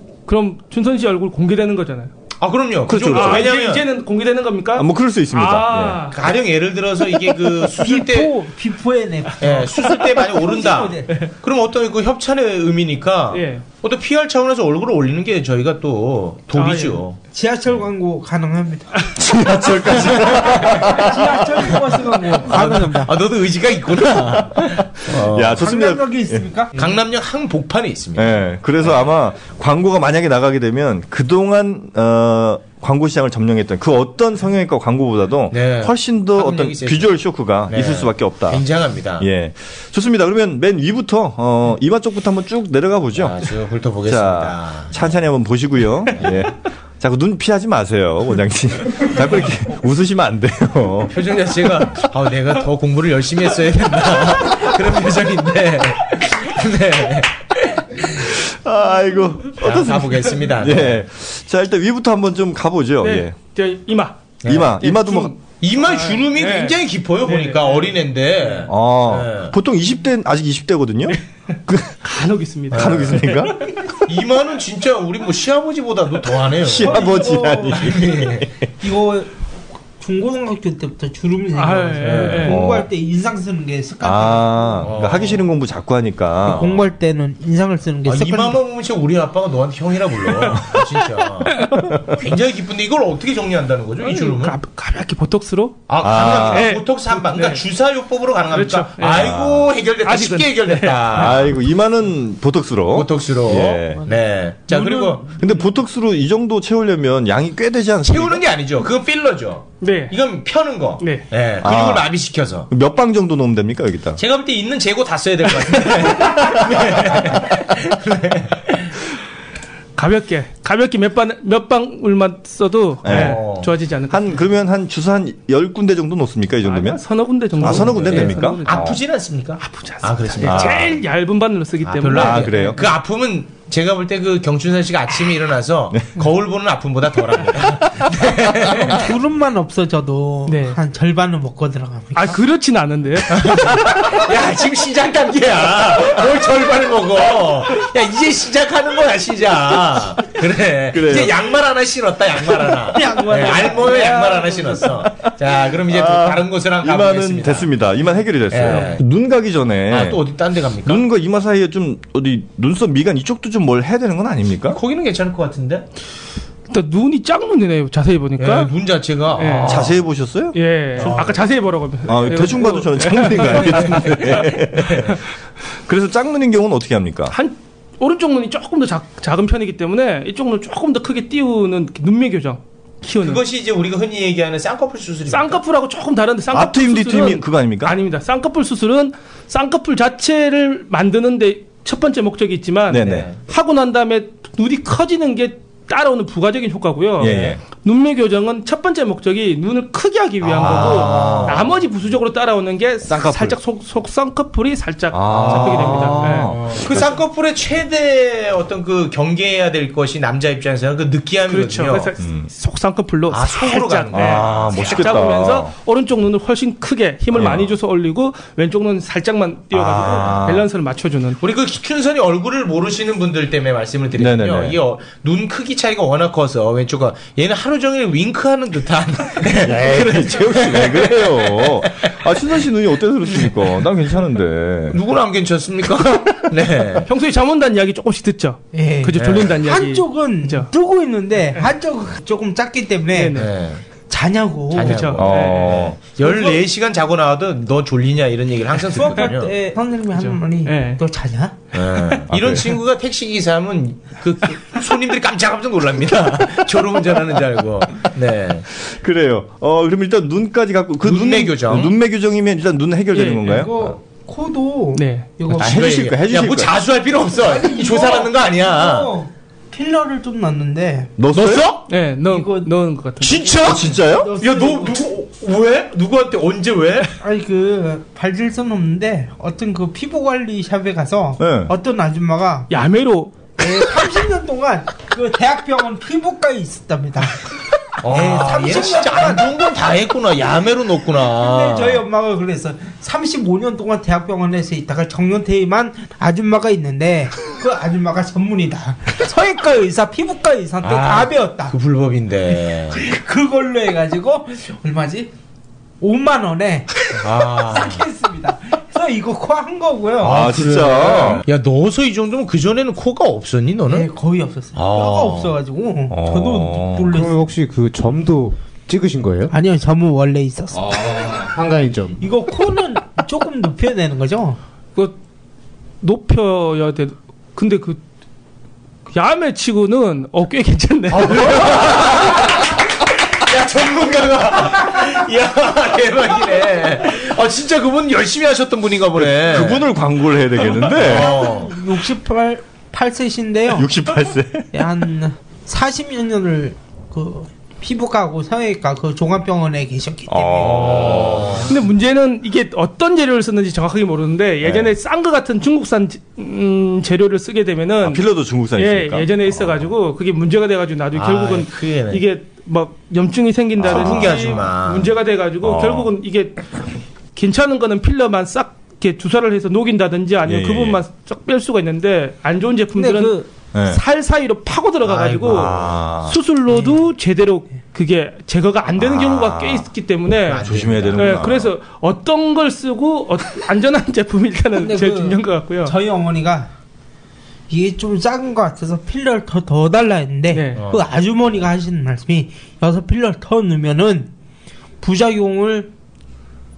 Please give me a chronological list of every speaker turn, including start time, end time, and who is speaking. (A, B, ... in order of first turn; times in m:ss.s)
0:00.3-0:02.1 A
0:02.4-0:03.9 B
0:02.9-0:03.5 C
0:03.1-0:06.2 A
0:04.8-0:06.1 C
0:06.1-0:08.3 B
0:07.8-0:11.1 D
0:09.4-0:17.2 B
0:13.3-0:13.6 A
0:16.6-0:17.0 A
0:17.3-0:18.9 D
0:19.2-0:21.8 C
0:19.4-0:20.8 B
0:20.4-0:23.1 D
0:22.4-0:25.6 B
0:24.2-0:26.4 C
0:25.6-0:26.8 D
0:26.8-0:28.4 B
0:28.2-0:38.6 C
0:35.5-0:37.2 B
0:37.7-0:39.3 B
0:39.2-0:43.5 C
0:43.2-0:45.0 B
0:44.0-0:51.2 C
0:51.1-0:58.2 B
0:58.1-1:03.4 C
0:59.6-1:01.0 B
1:03.0-1:04.3 A
1:04.4-1:04.8 B
1:04.5-1:05.3 C
1:04.8-1:07.9 A
1:05.6-1:09.5 B
1:08.7-1:12.0 C
1:12.0-1:13.7 A
1:12.7-1:13.3 B
1:12.7-1:13.7 C
1:14.0-1:17.0 B
1:16.6-1:18.5 C
1:16.8-1:17.8 D
1:17.7-1:18.5 B
1:18.8-1:19.3 D
1:20.0-1:24.9 D
1:21.6-1:22.6 A
1:22.0-1:22.6 B
1:22.4-1:22.9 C
1:24.0-1:26.9 C
1:24.8-1:25.4 B
1:26.4-1:28.6 D
1:28.1-1:34.6 B
1:31.6-1:31.9 A
1:34.0-1:35.9 A
1:35.9-1:41.5 B
1:36.0-1:36.7 C
1:36.4-1:37.6 A
1:38.5-1:39.4 A
1:39.2-1:39.7 C
1:40.0-1:41.4 A
1:41.1-1:44.1 C
1:42.9-1:45.3 B
1:44.7-1:45.5 A
1:45.4-1:48.4 C
1:48.0-1:52.7 B
1:49.8-1:50.2 A
1:51.0-1:51.2 A
1:51.6-1:52.1 C
1:52.7-1:54.2 C
1:54.2-1:58.9 B
2:00.0-2:04.4 A
2:03.0-2:03.4 C
2:03.1-2:03.7 B
2:04.1-2:09.0 C
2:06.6-2:09.0 A
2:07.6-2:11.0 B
2:09.6-2:12.9 A
2:10.4-2:11.0 C
2:11.8-2:19.0 B
2:12.1-2:12.8 C
2:18.7-2:22.4 D
2:20.5-2:20.8 A
2:22.2-2:24.1 A
2:23.3-2:37.7 B
2:30.9-2:31.4 C
2:32.9-2:34.8 D
2:35.9-2:40.2 C
2:38.5-2:39.0 B
2:39.9-2:41.0 B
2:40.8-2:44.8 C
2:44.7-2:45.9 B
2:46.7-2:48.7 A
2:48.4-2:50.0 B
2:49.4-2:49.9 A
2:49.6-2:51.2 C
2:50.5-2:54.6 A
2:51.0-2:51.5 B
2:52.1-2:55.2 C
2:53.6-2:54.1 B
2:54.8-2:55.2 B
2:55.9-2:57.4 C
2:57.3-3:03.4 A
3:03.2-3:05.6 B
3:05.3-3:26.6 A
3:06.5-3:08.0 C
3:12.9-3:13.3 C
3:13.0-3:13.4 B
3:17.2-3:17.6 C
3:20.4-3:21.7 B
3:20.6-3:21.7 C
3:23.0-3:23.6 C
3:25.1-3:27.2 C
3:25.3-3:32.1 B
3:31.5-3:41.4 A
3:32.2-3:32.5 C
3:33.3-3:35.4 B
3:34.1-3:35.7 C
3:37.3-3:37.7 C
3:39.7-3:40.7 C
3:41.4-3:52.2 B
3:44.2-3:44.8 C
3:49.6-3:55.0 C
3:54.9-3:57.1 B
3:57.1-4:00.7 A
3:58.7-4:03.4 D
3:59.2-3:59.6 B
4:03.1-4:03.5 A
4:03.3-4:03.8 B
4:04.1-4:05.1 D
4:04.7-4:09.5 B
4:04.8-4:05.9 A
4:05.2-4:06.0 C
4:06.2-4:06.6 D
4:09.0-4:11.6 D
4:10.2-4:11.0 A
4:11.7-4:18.7 B
4:12.3-4:12.7 C
4:18.8-4:24.0 C
4:21.0-4:21.9 B
4:23.1-4:23.7 A
4:23.4-4:25.8 D
4:25.0-4:25.3 A
4:25.5-4:29.1 B
4:25.5-4:26.7 C
4:27.4-4:31.1 D
4:31.2-4:31.7 C
4:31.3-4:31.9 B
4:31.9-4:33.6 A
4:32.3-4:32.7 D
4:33.2-4:37.2 B
4:33.6-4:34.3 C
4:33.9-4:35.0 D
4:37.2-4:42.7 D
4:41.4-4:41.7 C
4:42.7-4:43.5 A
4:43.6-4:47.5 D
4:48.0-4:49.4 D
4:48.0-4:52.0 B
4:51.4-5:01.8 D
5:00.8-5:03.0 B
5:02.9-5:05.3 D
5:06.0-5:10.5 D
5:07.2-5:08.0 B
5:10.2-5:14.1 B
5:10.2-5:11.4 C
5:13.9-5:17.5 D
5:14.8-5:15.5 B
5:16.1-5:17.1 C
5:17.1-5:19.5 E
5:19.5-5:21.0 D
5:20.8-5:22.2 E
5:22.2-5:24.6 D
5:26.0-5:28.0 A
5:29.1-5:31.9 A
5:31.1-5:32.8 B
5:33.3-5:39.9 B
5:39.2-5:41.4 C
5:40.8-5:41.7 B
5:41.0-5:43.9 D
5:43.7-5:44.7 C
5:44.7-5:51.4 D
5:50.3-5:51.7 C
5:50.6-5:51.7 B
5:51.7-5:58.2 A
5:54.6-5:55.0 C
5:58.0-5:59.9 C
5:58.8-6:06.7 A
6:01.1-6:02.2 B
6:03.8-6:04.5 C
6:03.8-6:05.1 B
6:05.6-6:06.1 C
6:07.4-6:25.9 A
6:10.4-6:11.0 C
6:13.0-6:13.5 D
6:13.7-6:14.0 C
6:15.0-6:15.8 B
6:15.4-6:16.4 C
6:16.7-6:17.0 D
6:19.0-6:19.9 C
6:20.5-6:21.5 B
6:20.5-6:21.7 C
6:24.8-6:26.7 D
6:27.7-6:34.3 D
6:30.5-6:30.8 A
6:30.8-6:31.0 B
6:35.0-6:35.9 D